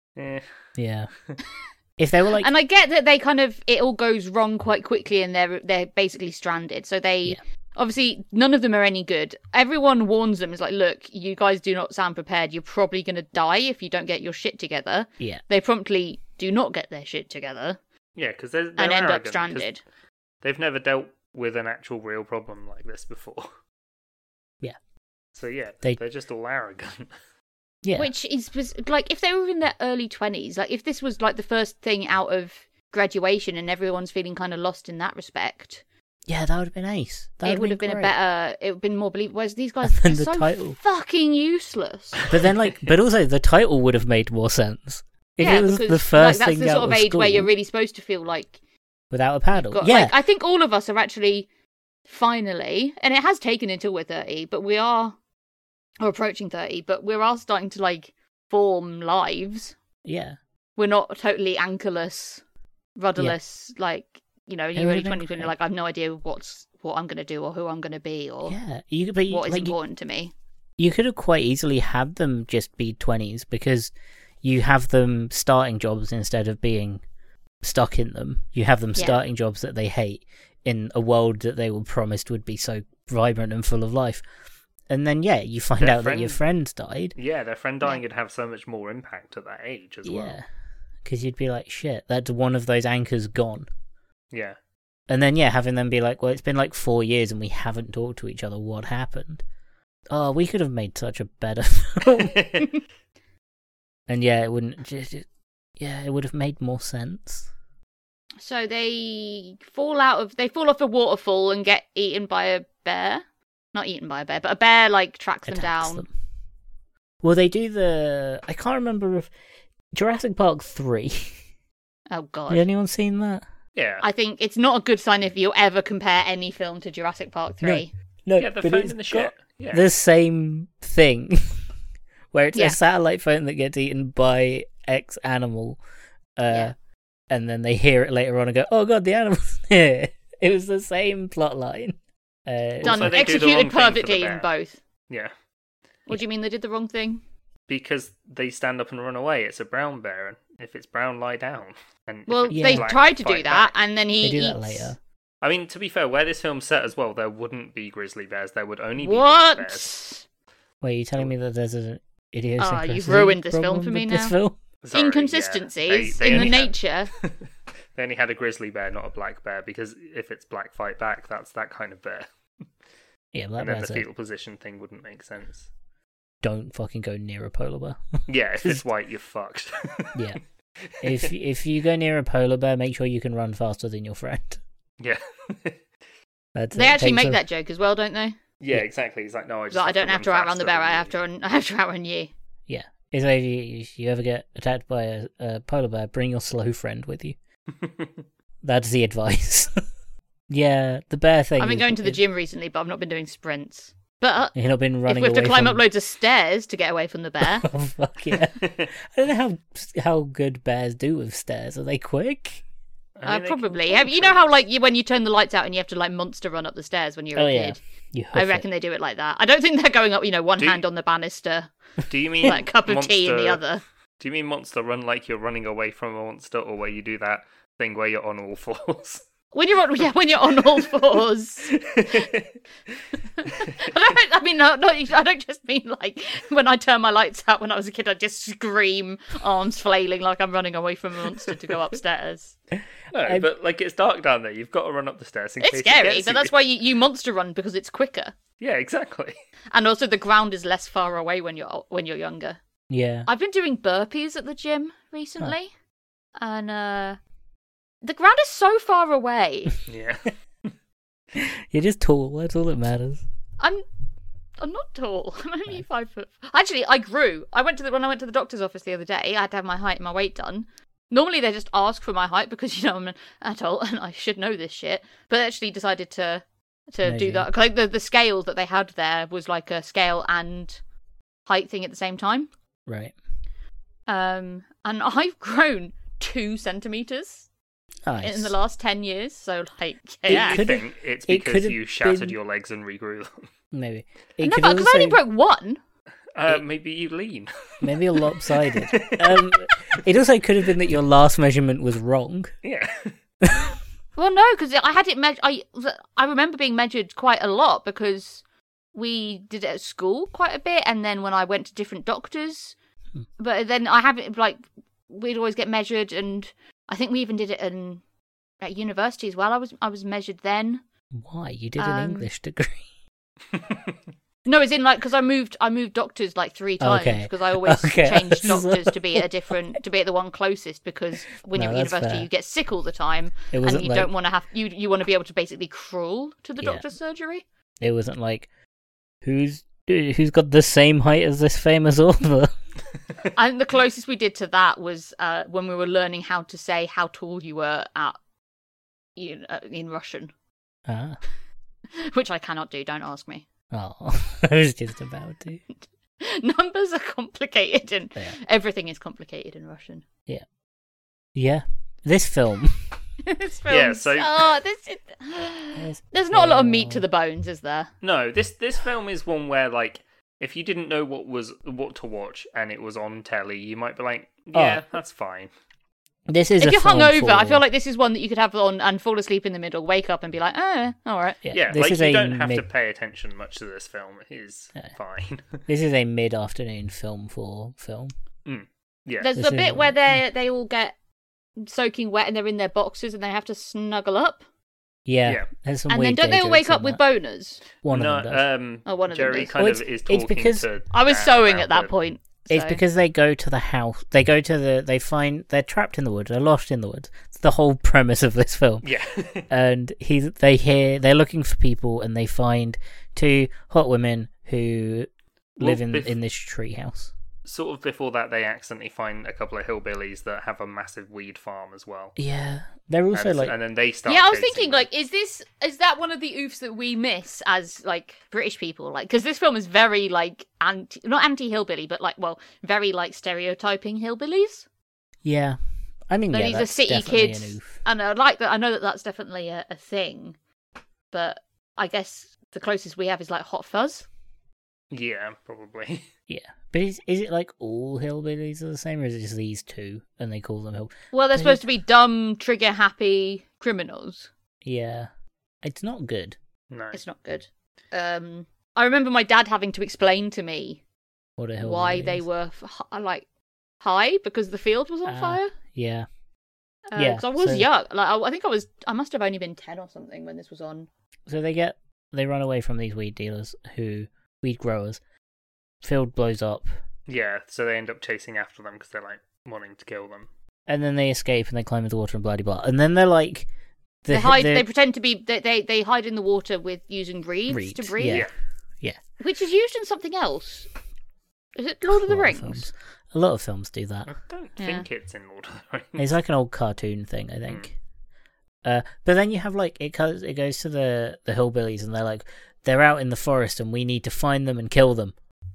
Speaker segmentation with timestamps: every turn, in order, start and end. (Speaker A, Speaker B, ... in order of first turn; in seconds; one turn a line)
Speaker A: 0.2-0.5
Speaker B: 0.8-1.1
Speaker B: 2.0-2.5
Speaker C: 2.4-17.8
Speaker A: 18.2-19.7
Speaker C: 18.8-19.8
Speaker A: 20.4-23.5
Speaker A: 25.4-27.1
Speaker B: 27.8-28.1
Speaker C: 28.0-35.8
Speaker B: 36.3-38.1
Speaker C: 37.4-42.3
Speaker B: 39.8-40.8
Speaker B: 42.3-47.5
Speaker C: 45.4-48.6
Speaker B: 49.1-50.1
Speaker C: 49.6-51.5
Speaker C: 52.1-55.2
Speaker C: 56.0-59.8
Speaker B: 60.0-60.4
Speaker C: 60.8-62.4
Speaker C: 63.0-68.6
Speaker B: 64.8-65.5
Speaker B: 68.5-69.8
Speaker C: 69.3-70.3
Speaker B: 70.8-73.9
Speaker B: 74.4-77.0
Speaker B: 77.6-84.2
Speaker B: 84.9-87.2
Speaker A: 85.8-86.4
Speaker A: 87.2-90.4
Speaker B: 90.0-90.5
Speaker B: 91.0-93.7
Speaker A: 94.3-94.6
Speaker B: 95.1-99.4
Speaker B: 100.1-102.6
Speaker A: 102.3-102.7
Speaker B: 104.1-105.3
Speaker B: 105.8-107.5
Speaker C: 108.4-116.0
Speaker B: 115.5-116.1
Speaker B: 117.2-119.3
Speaker B: 119.9-121.4
Speaker C: 122.1-122.6
Speaker B: 122.5-123.4
Speaker A: 123.8-124.0
Speaker C: 124.0-127.9
Speaker B: 127.6-131.6
Speaker A: 128.4-129.9
Speaker B: 132.3-135.8
Speaker B: 136.4-136.7
Speaker B: 137.3-143.2
Speaker A: 142.8-144.5
Speaker C: 142.8-144.8
Speaker C: 146.1-147.2
Speaker A: 147.7-153.7
Speaker C: 152.3-154.9
Speaker B: 152.5-152.9
Speaker B: 154.2-155.0
Speaker A: 155.4-159.9
Speaker C: 159.0-160.2
Speaker B: 160.8-164.6
Speaker C: 162.6-164.3
Speaker A: 164.8-172.3
Speaker C: 164.9-167.1
Speaker B: 173.3-174.1
Speaker A: 173.6-175.7
Speaker B: 176.4-178.8
Speaker A: 178.3-180.2
Speaker A: 180.9-181.3
Speaker B: 181.0-184.6
Speaker A: 185.0-185.8
Speaker B: 186.6-187.4
Speaker C: 186.7-188.4
Speaker A: 188.6-191.2
Speaker C: 189.7-192.3
Speaker B: 192.7-197.4
Speaker A: 197.8-198.2
Speaker B: 198.6-199.7
Speaker B: 200.5-202.2
Speaker C: 201.6-204.6
Speaker B: 204.6-205.8
Speaker C: 205.1-207.7
Speaker B: 207.4-212.6
Speaker A: 208.6-208.9
Speaker A: 213.2-214.4
Speaker C: 213.3-217.8
Speaker B: 217.3-218.7
Speaker C: 218.3-221.7
Speaker A: 222.1-223.6
Speaker C: 222.4-223.8
Speaker A: 224.2-229.2
Speaker C: 229.5-232.3
Speaker A: 231.7-232.5
Speaker C: 233.4-242.6
Speaker A: 233.4-233.7
Speaker A: 243.1-246.5
Speaker C: 245.6-248.3
Speaker A: 248.6-249.3
Speaker C: 249.7-252.6
Speaker B: 252.9-253.3
Speaker C: 253.3-255.7
Speaker C: 256.4-257.2
Speaker C: 258.0-259.8
Speaker A: 259.9-260.7
Speaker B: 261.3-263.2
Speaker C: 264.6-280.8
Speaker B: 277.0-277.5
Speaker C: 281.5-282.5
Speaker B: 282.9-283.1
Speaker C: 284.1-287.5
Speaker B: 288.1-288.6
Speaker C: 288.2-290.6
Speaker B: 290.3-292.4
Speaker A: 290.3-293.5
Speaker B: 293.7-295.2
Speaker C: 294.4-295.8
Speaker A: 296.4-300.0
Speaker B: 297.8-302.5
Speaker A: 302.6-303.1
Speaker B: 303.4-303.7
Speaker C: 304.2-308.4
Speaker C: 308.9-312.8
Speaker C: 313.4-318.0
Speaker C: 318.6-320.8
Speaker B: 321.1-322.9
Speaker C: 321.8-322.3
Speaker A: 323.5-323.9
Speaker C: 324.4-337.4
Speaker B: 326.8-329.3
Speaker B: 331.5-332.3
Speaker B: 333.5-334.1
Speaker B: 337.8-338.5
Speaker B: 339.2-342.6
Speaker C: 343.3-348.2
Speaker C: 349.2-350.3
Speaker B: 350.9-351.2
Speaker C: 351.9-353.4
Speaker B: 353.7-355.6
Speaker C: 356.2-360.1
Speaker B: 361.4-362.8
Speaker C: 363.2-367.9
Speaker A: 363.7-364.4
Speaker B: 365.8-367.0
Speaker A: 368.0-375.5
Speaker B: 374.5-374.8
Speaker B: 376.3-377.6
Speaker C: 376.6-381.4
Speaker B: 381.4-382.6
Speaker A: 381.5-385.7
Speaker B: 385.7-388.1
Speaker A: 388.5-389.3
Speaker C: 389.2-391.0
Speaker B: 389.4-389.9
Speaker C: 391.6-394.4
Speaker B: 395.1-397.0
Speaker C: 395.9-397.6
Speaker B: 397.8-398.4
Speaker A: 397.9-401.9
Speaker C: 398.9-399.5
Speaker B: 399.6-400.7
Speaker C: 400.9-402.8
Speaker B: 402.5-408.9
Speaker A: 408.8-409.5
Speaker B: 409.5-417.1
Speaker A: 415.6-416.2
Speaker A: 417.4-422.1
Speaker B: 422.2-423.6
Speaker A: 423.1-424.9
Speaker C: 424.1-434.7
Speaker B: 435.2-435.6
Speaker B: 436.1-437.8
Speaker C: 436.3-440.4
Speaker C: 441.1-444.1
Speaker A: 444.9-446.1
Speaker B: 446.3-451.6
Speaker C: 451.1-454.3
Speaker B: 454.6-455.1
Speaker B: 455.6-456.4
Speaker A: 456.7-457.0
Speaker C: 456.9-460.8
Speaker B: 461.4-462.3
Speaker C: 461.6-463.2
Speaker C: 463.8-465.5
Speaker B: 465.1-466.1
Speaker C: 466.9-470.9
Speaker B: 467.0-467.7
Speaker B: 471.3-475.0
Speaker B: 475.8-476.7
Speaker A: 477.1-480.3
Speaker B: 480.7-483.5
Speaker B: 484.0-484.7
Speaker C: 484.1-488.3
Speaker B: 487.5-488.3
Speaker C: 489.2-490.7
Speaker C: 491.6-492.7
Speaker B: 491.9-494.1
Speaker A: 494.1-496.1
Speaker C: 494.6-494.9
Speaker B: 496.0-497.7
Speaker B: 498.6-505.1